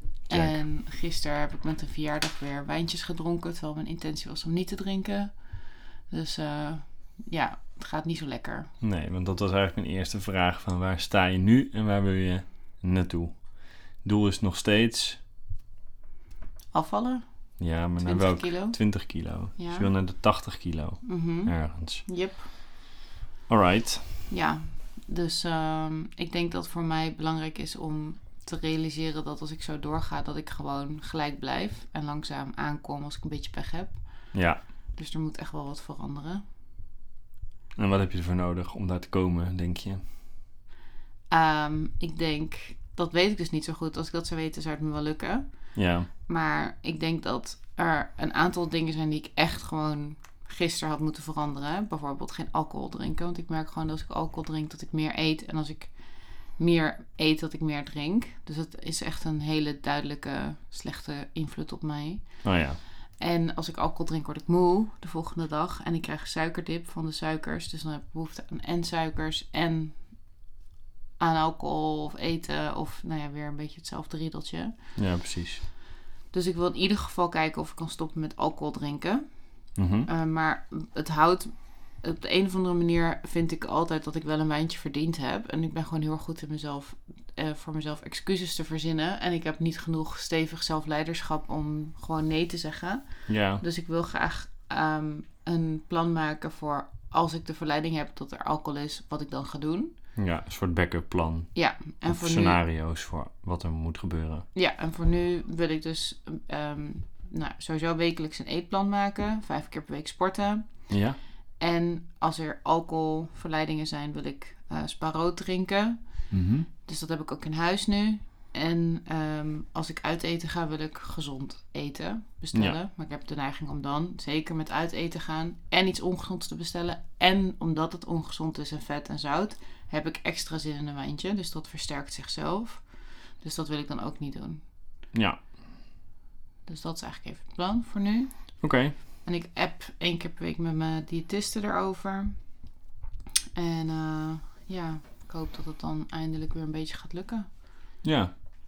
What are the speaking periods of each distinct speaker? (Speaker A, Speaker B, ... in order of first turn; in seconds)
Speaker A: 0.3-8.7, 16.7-19.9, 21.0-22.5, 24.3-36.4, 41.3-70.4, 71.2-74.7, 76.3-99.9, 101.5-102.6, 104.5-134.7, 136.7-142.6, 143.5-147.5
Speaker B: 0.3-0.6, 8.8-15.2, 17.6-22.1, 23.5-24.0, 34.3-34.6, 37.8-40.0, 45.7-46.1, 62.4-62.8, 75.0-75.6, 79.8-80.1, 93.3-93.6, 100.2-104.5, 110.9-111.2, 135.1-135.4, 138.6-138.9, 148.0-148.3